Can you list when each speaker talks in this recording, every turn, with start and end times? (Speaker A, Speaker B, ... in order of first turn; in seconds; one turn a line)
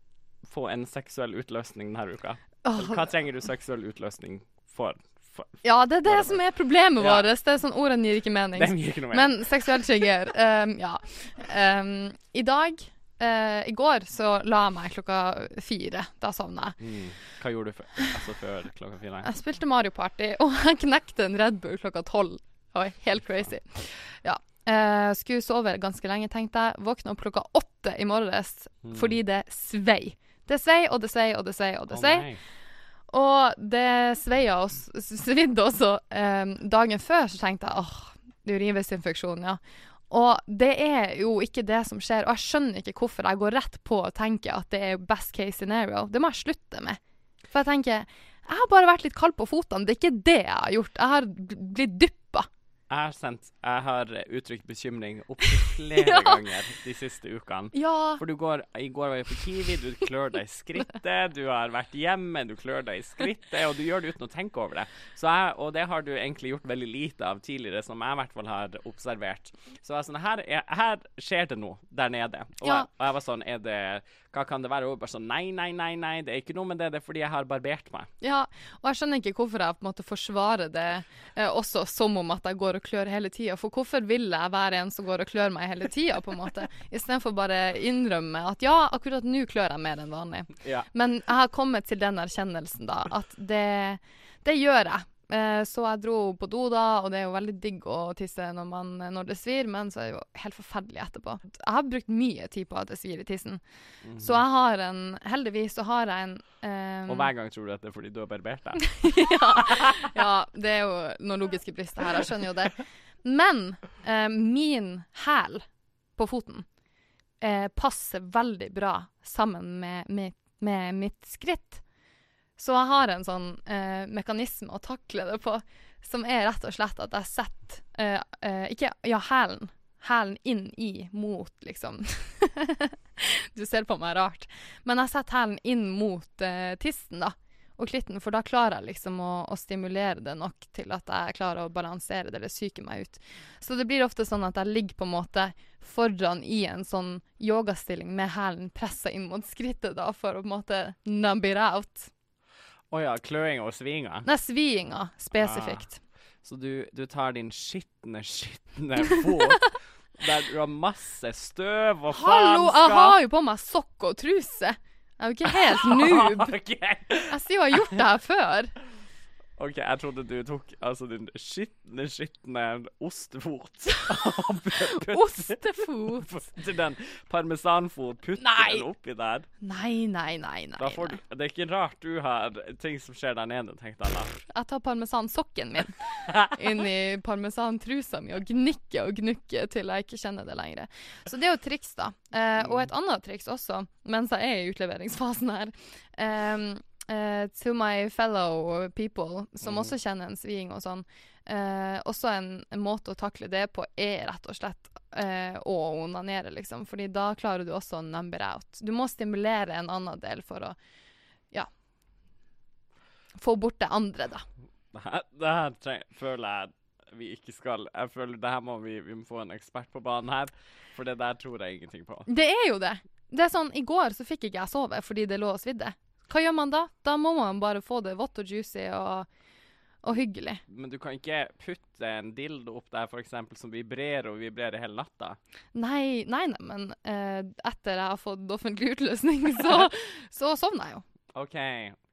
Speaker A: 0.4-6.4
Speaker B: 2.6-3.1
Speaker B: 5.6-16.8
Speaker A: 7.0-7.3
Speaker A: 8.6-9.4
Speaker A: 16.8-19.3
Speaker B: 19.2-32.3
Speaker A: 28.8-29.2
Speaker A: 31.9-32.4
Speaker B: 33.1-47.0
Speaker B: 47.5-52.5
Speaker A: 52.9-78.1
Speaker B: 55.9-56.4
Speaker B: 57.7-58.2
Speaker B: 72.6-72.9
Speaker B: 78.2-103.6
Speaker A: 90.6-90.9
Speaker A: 104.0-104.4
Speaker B: 104.2-107.3
Speaker A: 107.1-110.1
Speaker B: 108.8-115.6
Speaker B: 116.2-116.7
Speaker B: 117.4-121.8
Speaker B: 122.6-152.1
Speaker A: 152.9-154.3
Speaker B: 154.2-156.0
Speaker A: 155.4-155.8
Speaker A: 156.4-163.2
Speaker B: 162.1-166.5
Speaker A: 165.5-167.4
Speaker B: 167.3-168.7
Speaker A: 169.6-179.5
Speaker B: 175.0-176.3
Speaker B: 178.4-178.8
Speaker B: 179.6-181.2
Speaker A: 180.8-184.3
Speaker B: 184.5-210.8
Speaker A: 186.3-186.5
Speaker A: 192.6-192.9
Speaker A: 199.6-199.9
Speaker B: 213.4-214.4
Speaker A: 214.9-222.3
Speaker B: 222.3-229.3
Speaker B: 230.0-230.6
Speaker A: 230.7-235.4
Speaker B: 235.7-241.0
Speaker A: 241.3-242.0